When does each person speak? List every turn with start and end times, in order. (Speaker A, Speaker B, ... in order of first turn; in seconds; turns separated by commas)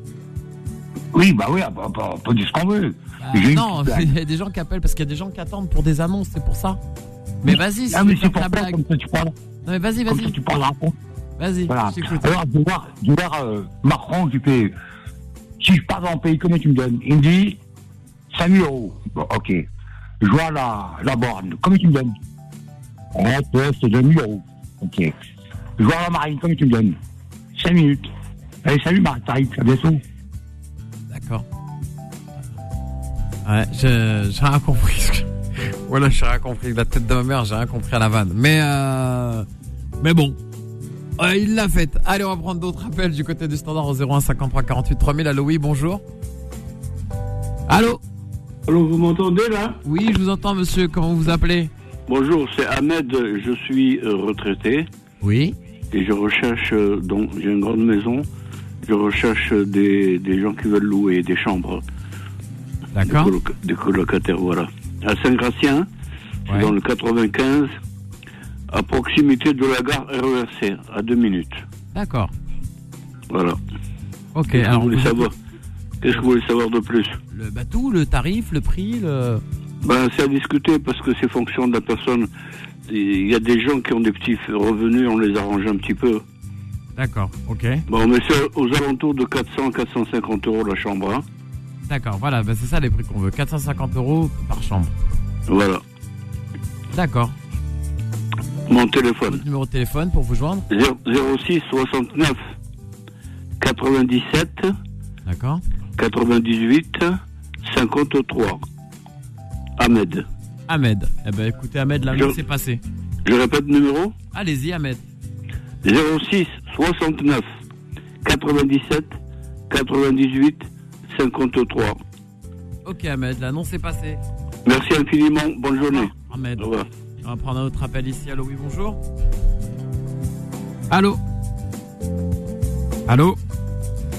Speaker A: 1.1-4.1, Speaker B: 3.2-6.8, Speaker B: 7.4-8.8, Speaker A: 7.5-9.3, Speaker B: 9.6-10.4, Speaker A: 10.1-11.0, Speaker B: 11.4-12.4, Speaker A: 11.7-14.7, Speaker A: 15.6-17.6, Speaker A: 18.3-19.7, Speaker A: 20.2-22.1, Speaker A: 23.1-25.1, Speaker A: 25.8-27.0, Speaker A: 27.6-28.1, Speaker A: 28.6-30.0, Speaker B: 31.1-31.4, Speaker B: 33.5-39.5, Speaker B: 40.0-40.4, Speaker B: 41.2-46.0, Speaker B: 47.7-48.0, Speaker B: 49.8-51.7, Speaker C: 52.1-54.9, Speaker B: 55.2-55.5, Speaker C: 55.9-58.3, Speaker C: 58.8-61.8, Speaker B: 62.9-63.3, Speaker C: 63.1-65.9, Speaker B: 66.5-66.7, Speaker C: 66.5-67.7, Speaker C: 68.7-71.6, Speaker B: 71.9-72.3, Speaker C: 73.3-73.6, Speaker B: 74.3-75.3, Speaker C: 74.5-75.3, Speaker C: 76.0-77.2, Speaker B: 77.3-79.4, Speaker C: 79.8-82.3, Speaker C: 82.9-86.2, Speaker B: 87.0-87.8, Speaker C: 87.9-91.2, Speaker B: 91.9-94.9, Speaker C: 95.5-95.8, Speaker B: 96.9-97.3, Speaker C: 98.7-99.4, Speaker B: 99.3-100.7, Speaker C: 100.7-102.5, Speaker C: 103.6-104.7, Speaker B: 105.3-105.6, Speaker C: 106.0-108.6, Speaker C: 109.8-110.3, Speaker B: 110.7-112.8, Speaker C: 113.2-114.2, Speaker B: 114.3-115.0, Speaker C: 115.8-117.5, Speaker C: 118.2-119.1, Speaker C: 119.7-122.0, Speaker B: 122.8-124.2, Speaker C: 124.7-126.9, Speaker B: 125.8-126.7, Speaker B: 127.2-129.0, Speaker B: 130.9-131.2, Speaker B: 133.1-133.4